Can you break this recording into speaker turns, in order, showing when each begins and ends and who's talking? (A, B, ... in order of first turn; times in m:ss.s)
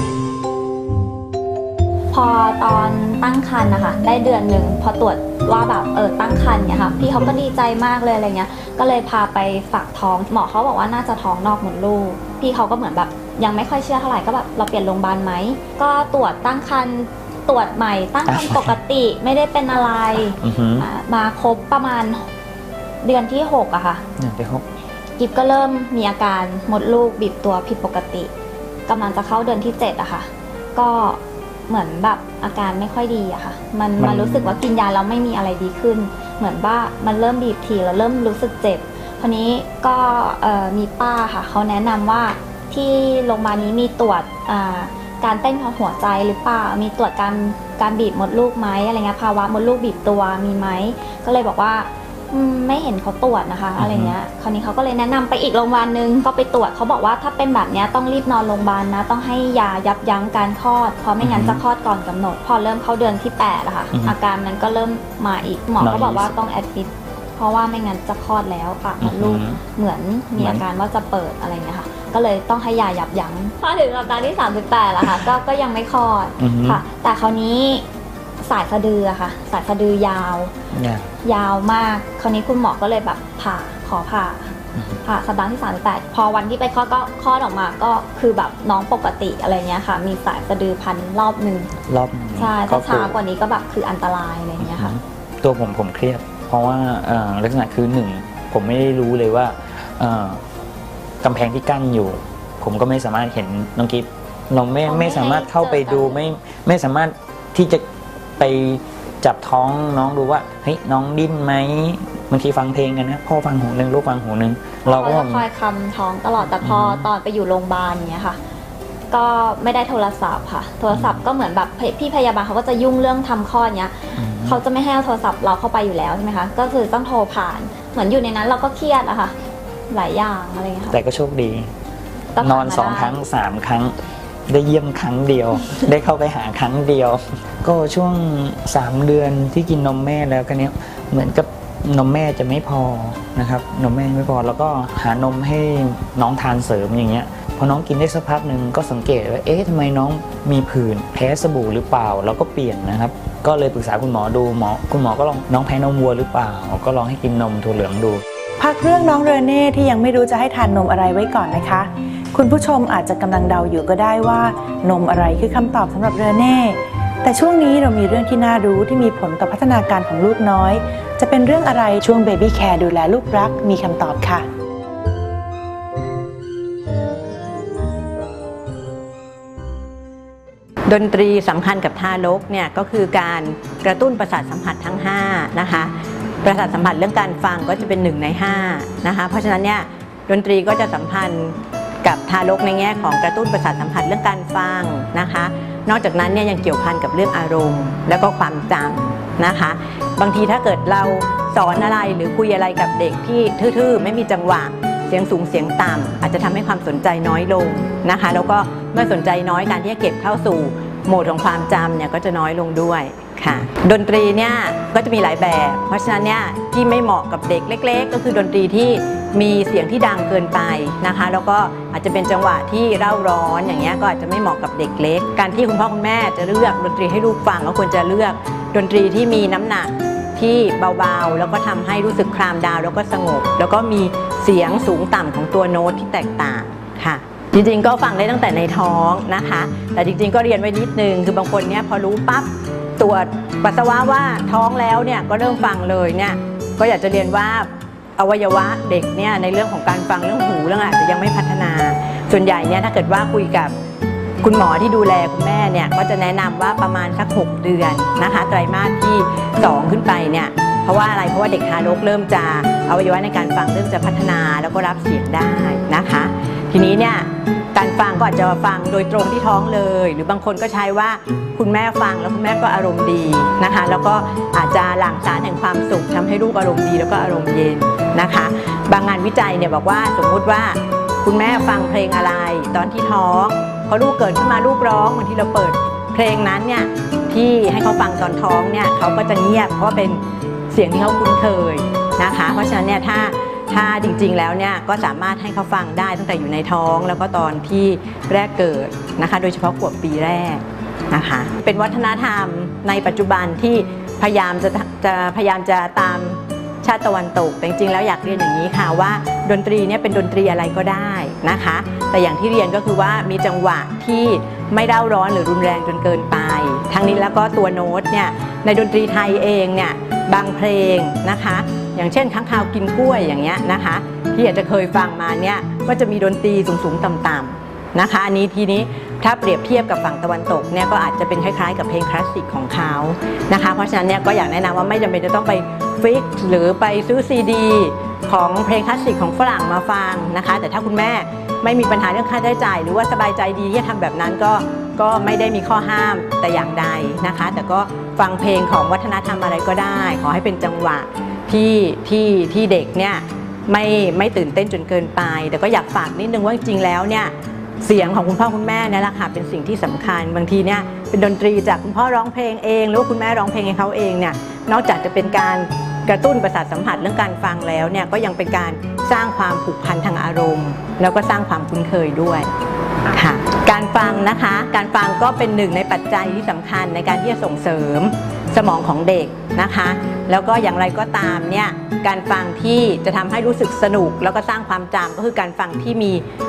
0:02.1-0:22.2 A
0:07.0-0:07.3 B
0:18.3-0:18.8 B
0:20.4-0:20.9 B
0:23.0-0:24.0 A
0:24.2-0:24.7 B
0:25.2-0:28.3 A
0:28.9-1:17.8 A
0:34.0-0:34.6 B
0:53.8-0:54.1 B
1:01.2-1:01.6 B
1:05.8-1:06.3 B
1:09.0-1:09.6 B
1:10.4-1:10.6 B
1:16.4-1:16.8 B
1:18.4-1:20.5 A
1:20.7-1:21.1 B
1:21.2-1:31.7 A
1:31.9-1:33.2 B
1:32.4-1:35.0 A
1:34.6-1:40.4 B
1:41.2-1:47.8 B
1:44.8-1:46.2 A
1:48.4-1:55.4 B
1:54.8-1:58.4 A
1:56.6-1:57.1 B
1:59.1-2:09.4 A
2:00.9-2:01.2 B
2:04.2-2:04.6 B
2:09.9-2:11.0 A
2:10.9-2:11.7 B
2:12.4-2:13.3 A
2:12.4-2:13.9 B
2:14.5-2:38.2 B
2:38.6-2:54.4 C
3:00.9-3:05.9 D
3:06.4-4:13.7 D
4:14.4-4:50.2 D
4:50.7-6:12.5 D
6:13.1-6:26.2 D